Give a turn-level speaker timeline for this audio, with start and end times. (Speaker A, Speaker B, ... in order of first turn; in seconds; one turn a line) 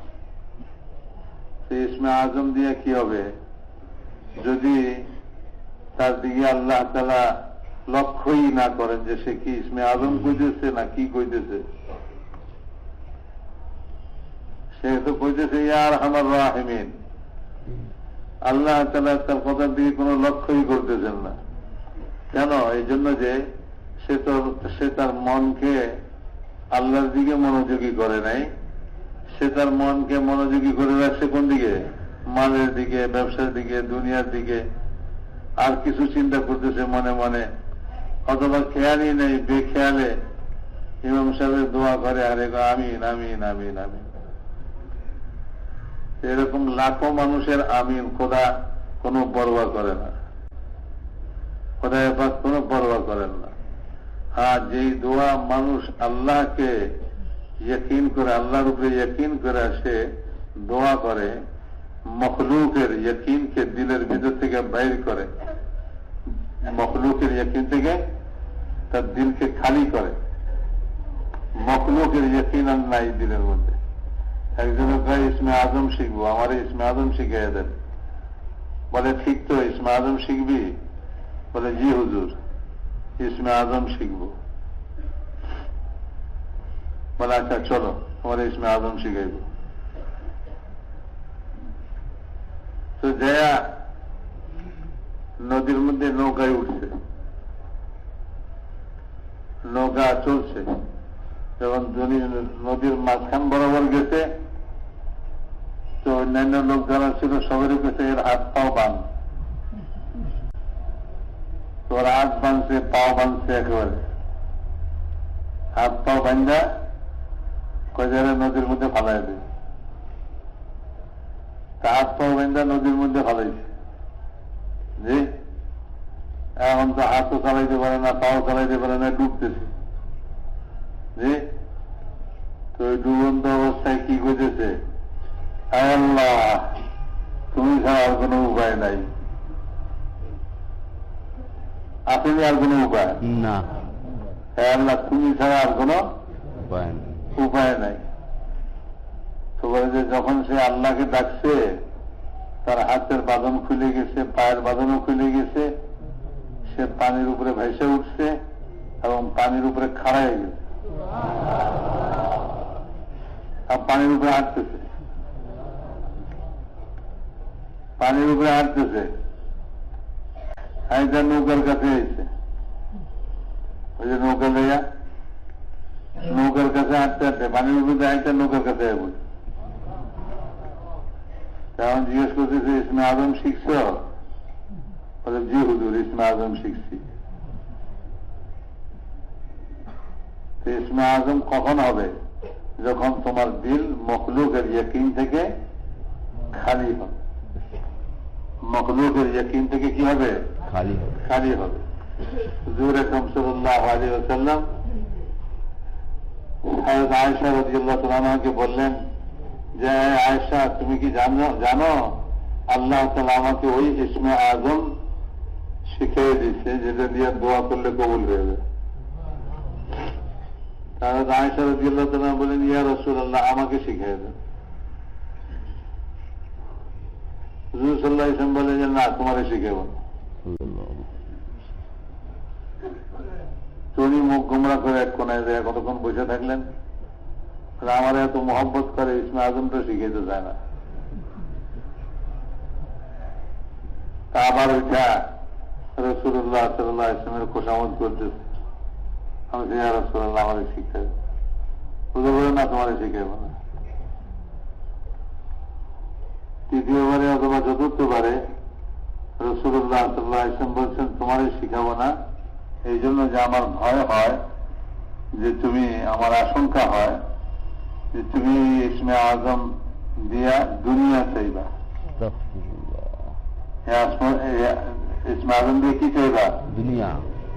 Speaker A: 1.7-3.3
Speaker A: 4.4-5.0
Speaker A: 6.0-7.3
Speaker A: 7.9-11.6
Speaker A: 14.8-16.9
Speaker A: 18.4-21.4
Speaker A: 22.3-23.4
Speaker A: 24.0-25.8
Speaker A: 26.7-28.5
Speaker A: 29.3-34.6
Speaker A: 35.6-37.5
Speaker A: 38.3-40.1
Speaker A: 41.0-44.1
Speaker A: 46.2-50.1
Speaker A: 51.8-53.5
Speaker A: 54.4-56.8
Speaker A: 57.6-60.0
Speaker A: 60.6-61.4
Speaker A: 62.1-65.3
Speaker A: 66.6-68.0
Speaker A: 68.9-70.1
Speaker A: 71.6-73.7
Speaker A: 74.6-77.7
Speaker A: 78.9-80.7
Speaker A: 81.5-82.3
Speaker A: 83.2-84.3
Speaker A: 87.2-89.5
Speaker A: 93.0-93.6
Speaker A: 95.4-96.9
Speaker A: 99.7-100.7
Speaker A: 101.6-104.3
Speaker A: 106.0-109.0
Speaker A: 111.9-114.0
Speaker A: 115.7-116.7
Speaker A: 117.9-119.4
Speaker A: 121.8-123.7
Speaker A: 125.0-125.3
Speaker A: 126.6-129.7
Speaker A: 131.1-131.4
Speaker A: 132.7-134.8
Speaker A: 135.7-136.8
Speaker A: 137.5-139.1
Speaker A: 142.1-143.2
Speaker B: 143.2-143.7
Speaker A: 144.6-146.0
Speaker B: 146.6-147.3
Speaker A: 147.3-148.0
Speaker A: 149.6-151.8
Speaker A: 152.6-155.7
Speaker A: 156.7-158.3
Speaker A: 159.0-160.6
Speaker A: 163.7-164.8
Speaker A: 168.0-169.1
Speaker A: 170.9-172.3
Speaker A: 174.0-174.8
Speaker A: 176.2-179.2
Speaker A: 181.8-184.0
Speaker A: 185.2-187.0
Speaker A: 190.6-192.1
Speaker A: 192.8-195.5
Speaker A: 196.5-197.1
Speaker A: 198.6-200.5
Speaker B: 200.7-201.1
Speaker A: 201.1-201.8
Speaker A: 202.5-204.7
Speaker A: 206.6-209.0
Speaker A: 209.8-214.9
Speaker A: 215.9-218.6
Speaker A: 221.0-224.3
Speaker A: 227.7-229.9
Speaker B: 230.4-231.1
Speaker A: 233.9-236.7
Speaker A: 237.8-240.6
Speaker A: 244.3-245.2
Speaker A: 246.0-248.4
Speaker A: 249.5-251.1
Speaker A: 252.1-253.6
Speaker A: 256.7-258.4
Speaker A: 259.4-262.1
Speaker A: 262.9-264.4
Speaker A: 265.3-267.2
Speaker A: 268.1-271.7
Speaker B: 272.2-273.3
Speaker A: 273.9-276.6
Speaker B: 276.7-277.3